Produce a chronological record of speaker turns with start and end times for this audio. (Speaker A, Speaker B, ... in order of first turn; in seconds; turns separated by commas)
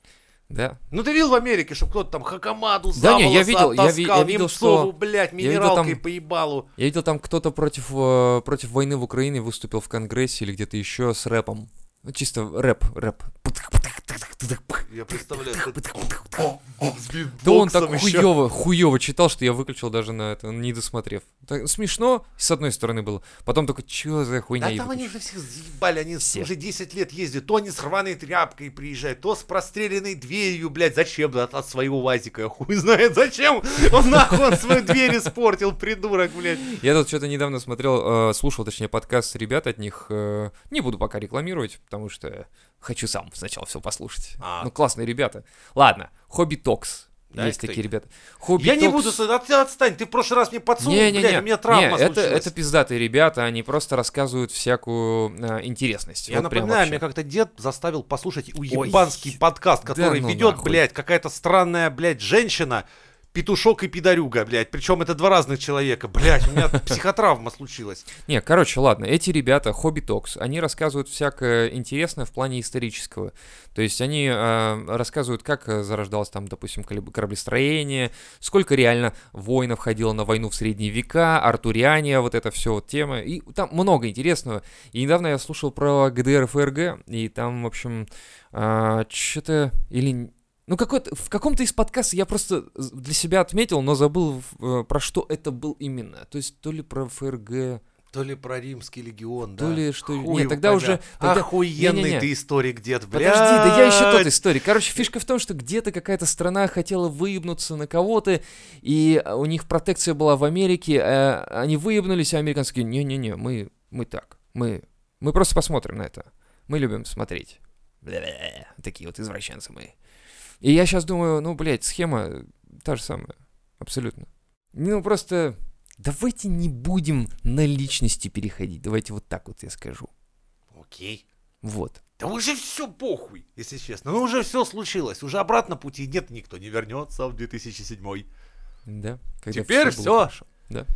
Speaker A: 0.5-0.8, Speaker B: 0.9-6.7, Speaker A: 2.9-6.0, Speaker A: 6.8-16.5, Speaker B: 14.9-18.3, Speaker A: 17.4-25.1, Speaker B: 24.6-36.6, Speaker A: 26.2-26.5, Speaker A: 34.3-34.6, Speaker A: 36.6-49.2, Speaker B: 44.4-44.7, Speaker B: 47.3-47.8, Speaker B: 48.5-52.5, Speaker A: 50.8-57.0, Speaker B: 56.3-68.1, Speaker A: 58.7-60.8, Speaker A: 68.2-97.8, Speaker B: 98.1-104.4, Speaker A: 99.6-102.3, Speaker A: 103.1-119.9, Speaker A: 120.6-130.1, Speaker B: 130.7-131.2, Speaker A: 131.6-132.0, Speaker B: 132.2-138.2, Speaker A: 138.8-140.9, Speaker B: 139.5-140.3